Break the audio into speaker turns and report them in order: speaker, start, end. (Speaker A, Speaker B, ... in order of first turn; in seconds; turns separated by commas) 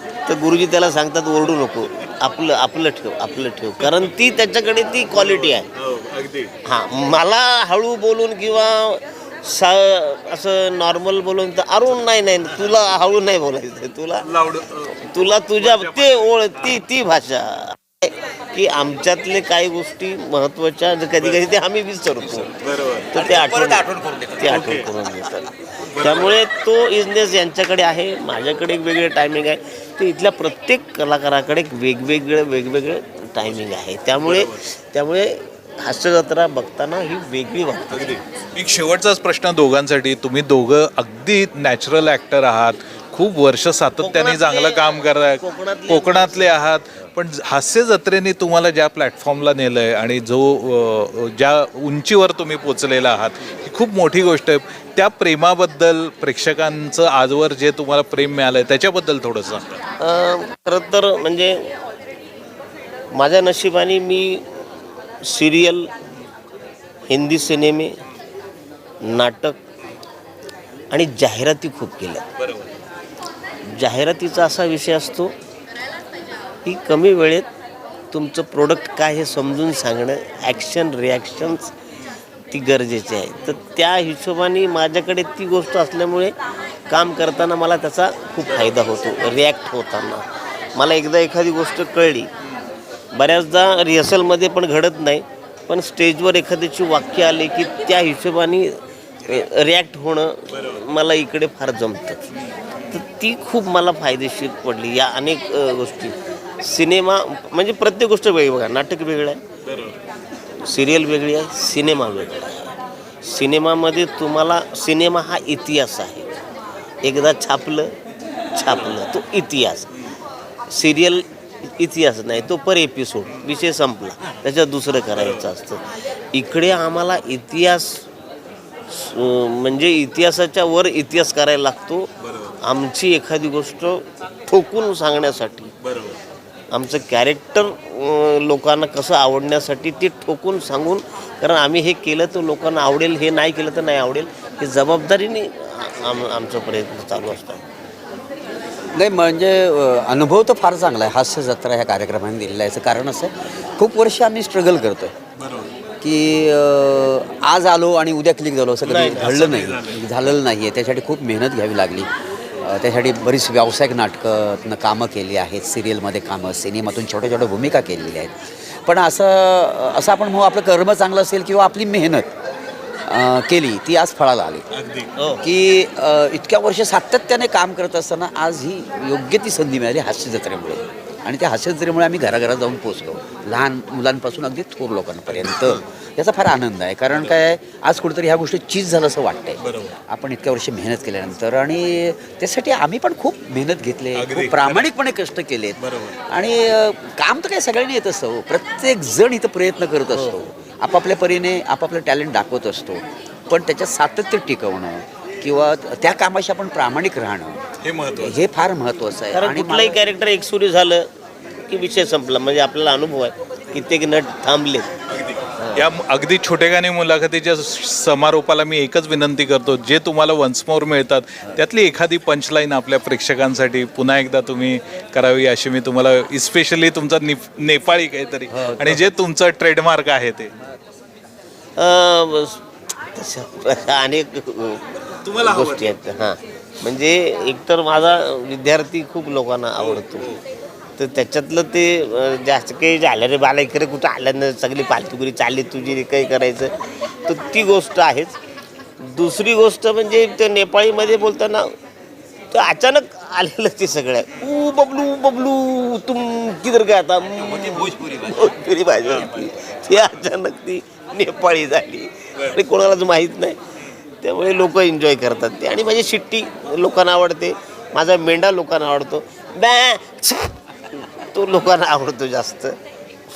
Speaker A: 0.2-5.7, Speaker B: 3.8-4.1, Speaker B: 5.1-6.5, Speaker A: 6.7-14.3, Speaker B: 14.2-14.9, Speaker A: 15.0-22.6, Speaker B: 15.6-16.7, Speaker B: 22.2-23.5, Speaker A: 23.1-38.2, Speaker B: 24.4-24.9, Speaker B: 25.8-26.4, Speaker B: 34.2-34.6, Speaker B: 37.9-59.8, Speaker A: 44.0-46.6, Speaker A: 60.0-61.7, Speaker A: 63.1-64.5, Speaker A: 65.2-65.9, Speaker A: 67.1-68.0, Speaker A: 69.0-69.6, Speaker A: 70.9-72.3, Speaker B: 72.4-72.7, Speaker A: 73.7-75.3, Speaker A: 76.6-77.5, Speaker A: 78.1-81.7, Speaker A: 82.5-86.3, Speaker A: 86.9-92.3, Speaker A: 93.1-102.2, Speaker B: 100.5-100.8, Speaker B: 102.3-102.9, Speaker A: 102.9-109.4, Speaker B: 109.7-110.0, Speaker A: 110.7-112.7, Speaker A: 113.2-116.3, Speaker A: 117.0-117.9, Speaker A: 118.5-119.9, Speaker A: 120.7-128.1, Speaker A: 128.9-135.7, Speaker B: 132.2-132.5, Speaker B: 135.8-136.2, Speaker A: 136.7-147.6, Speaker C: 148.9-155.1, Speaker B: 155.4-155.7, Speaker C: 156.0-162.1, Speaker A: 158.8-159.4, Speaker B: 158.9-160.0, Speaker C: 162.6-168.3, Speaker C: 168.8-172.3, Speaker C: 173.1-174.7, Speaker B: 174.7-175.2, Speaker A: 175.2-175.5, Speaker C: 175.4-207.6, Speaker B: 185.4-185.8, Speaker B: 189.6-189.9, Speaker B: 194.1-194.9, Speaker B: 195.8-196.1, Speaker A: 200.1-200.5, Speaker B: 207.8-208.4, Speaker C: 208.2-210.0, Speaker A: 209.3-211.1, Speaker A: 211.6-214.9, Speaker B: 215.1-230.5, Speaker C: 228.5-229.1, Speaker A: 231.8-232.6, Speaker A: 233.1-240.3, Speaker B: 235.2-235.9, Speaker B: 239.8-240.4, Speaker A: 241.0-246.7, Speaker A: 247.2-248.4, Speaker A: 249.0-251.7, Speaker A: 252.5-263.6, Speaker B: 257.5-257.9, Speaker B: 259.0-259.5, Speaker A: 264.2-272.8